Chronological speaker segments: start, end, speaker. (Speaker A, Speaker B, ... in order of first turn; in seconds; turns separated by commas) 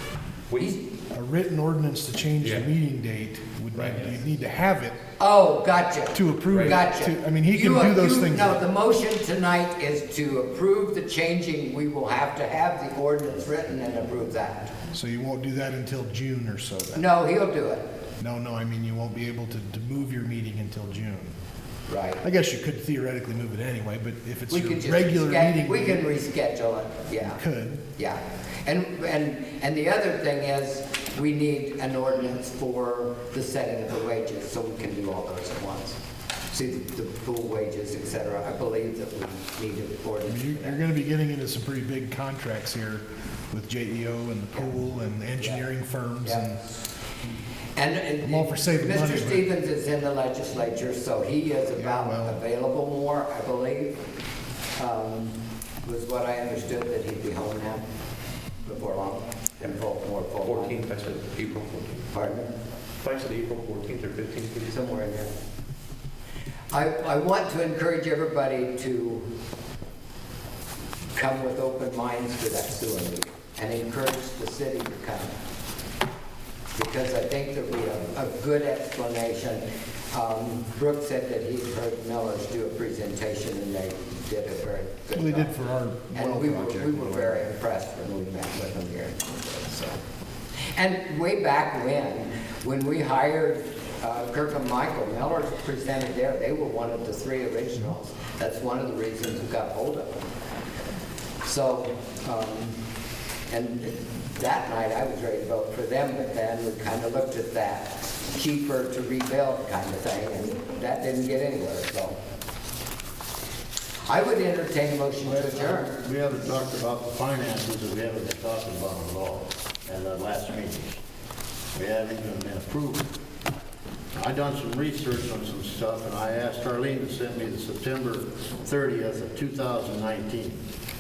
Speaker A: 1.1-5.0, Speaker B: 5.2-14.7, Speaker A: 6.1-8.6, Speaker A: 14.9-17.1, Speaker B: 16.9-17.9, Speaker A: 18.2-21.3, Speaker B: 21.9-22.2, Speaker A: 22.2-26.1, Speaker B: 24.5-27.4, Speaker A: 27.2-27.8, Speaker B: 28.0-36.0, Speaker B: 36.5-40.8, Speaker A: 40.3-46.6, Speaker B: 47.8-54.0, Speaker A: 48.2-49.5, Speaker A: 51.8-52.4, Speaker B: 54.8-57.8, Speaker B: 58.6-60.8, Speaker C: 60.5-62.0, Speaker B: 62.1-62.5, Speaker C: 63.0-64.7, Speaker B: 64.7-65.3, Speaker B: 66.7-69.2, Speaker B: 71.2-75.3, Speaker B: 76.8-85.5, Speaker A: 85.1-87.4, Speaker B: 86.1-90.0, Speaker B: 90.7-100.1, Speaker B: 101.4-102.8, Speaker B: 103.5-112.2, Speaker B: 114.1-115.9, Speaker D: 115.2-121.0, Speaker D: 121.8-123.1, Speaker D: 124.2-130.6